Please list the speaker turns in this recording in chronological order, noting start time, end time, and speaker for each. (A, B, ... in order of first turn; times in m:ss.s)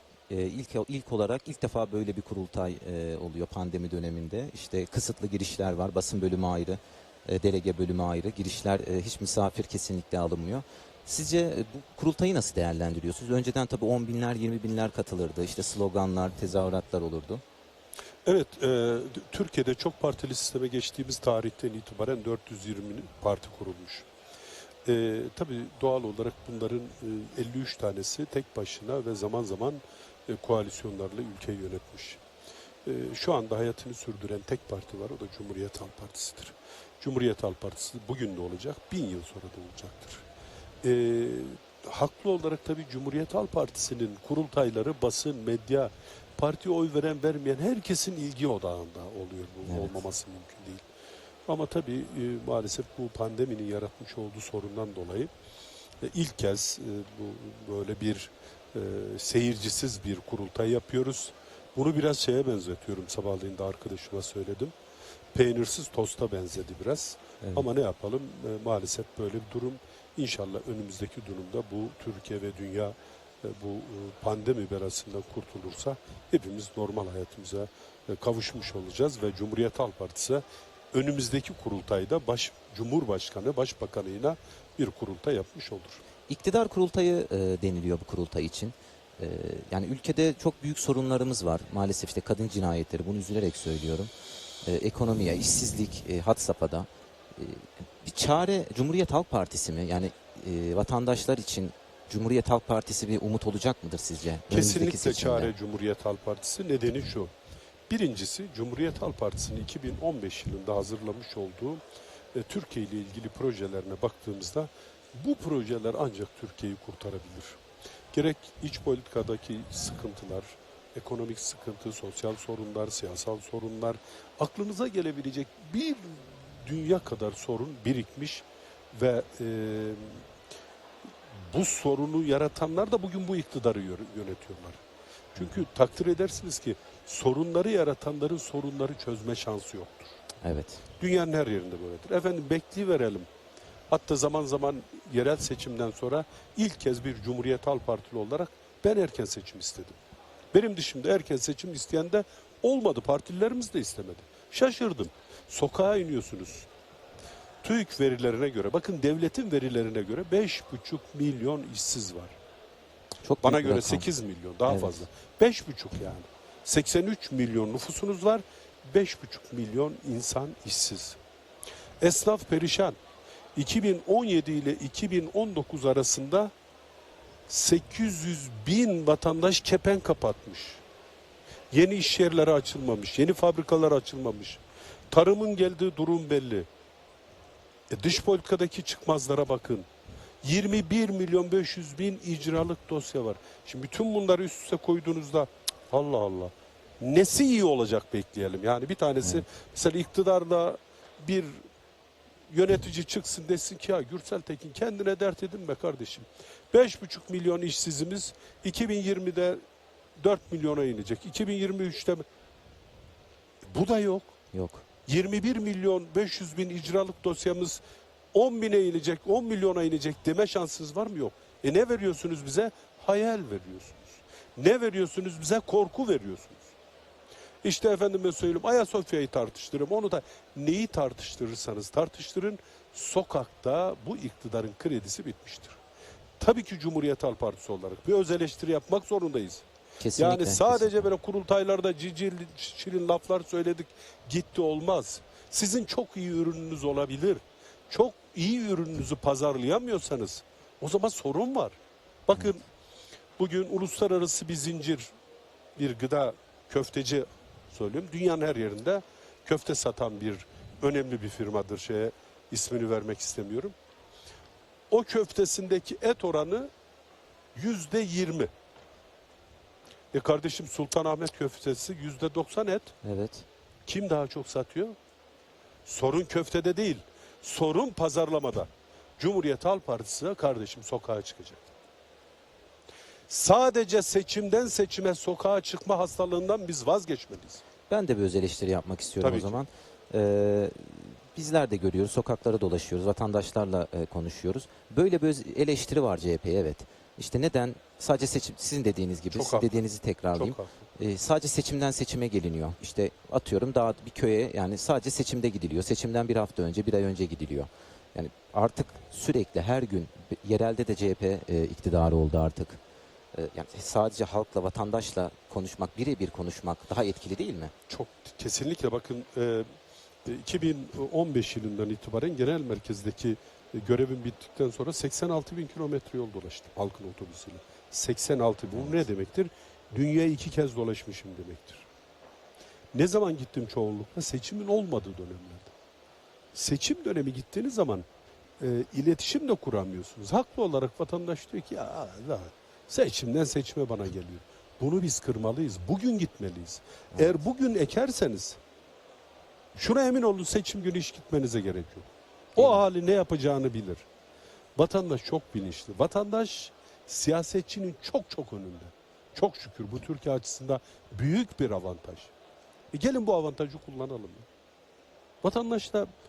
0:00.3-0:17.4 A
0:18.2-0:24.0 B
0:24.8-0:32.2 B
0:32.8-0:40.2 B
0:40.8-0:50.9 B
0:49.6-0:50.0 A
0:51.5-0:55.3 B
0:56.0-1:04.7 B
1:05.3-1:26.0 B
1:07.4-1:07.6 A
1:26.3-1:34.1 A
1:34.6-1:45.5 A
1:44.5-1:47.3 B
1:47.9-1:51.8 B
1:52.3-1:57.6 B
1:58.1-2:10.2 B
2:11.4-2:14.8 B
2:15.3-2:20.1 B
2:20.4-2:20.8 A
2:21.0-2:23.3 B
2:23.9-2:30.0 B
2:30.5-2:36.7 B
2:37.6-2:42.4 B
2:43.2-2:44.0 A
2:43.4-2:51.2 B
2:44.7-2:45.0 A
2:52.0-2:53.0 B
2:53.6-2:56.5 B
2:57.5-3:00.8 B
3:01.7-3:06.7 B
3:07.9-3:09.9 B
3:10.4-3:21.6 B
3:22.5-3:29.6 B
3:30.2-3:32.2 B
3:33.7-3:34.3 B
3:34.5-3:34.8 A
3:35.1-3:37.8 B
3:38.3-3:46.7 B
3:47.6-3:55.8 B
3:56.4-3:59.6 B
4:00.0-4:01.1 A
4:00.2-4:12.6 B
4:13.4-4:15.1 B
4:15.8-4:23.7 B
4:24.9-4:26.7 B
4:27.5-4:28.5 B
4:30.1-4:32.9 B
4:33.0-4:33.5 A
4:33.8-4:35.0 B
4:35.8-4:41.7 B
4:43.3-4:47.6 B
4:47.9-5:12.8 A
4:49.2-4:49.6 B
4:59.3-5:00.8 B
5:13.3-5:17.7 A
5:17.9-5:19.7 B
5:20.2-5:31.9 B
5:28.7-5:29.0 A
5:32.9-5:35.7 B
5:36.5-5:38.0 B
5:38.6-5:48.6 B
5:47.1-5:47.4 A
5:49.7-5:54.0 B
5:52.6-5:52.8 A
5:54.8-6:02.3 B
6:02.9-6:04.5 B
6:05.4-6:06.1 B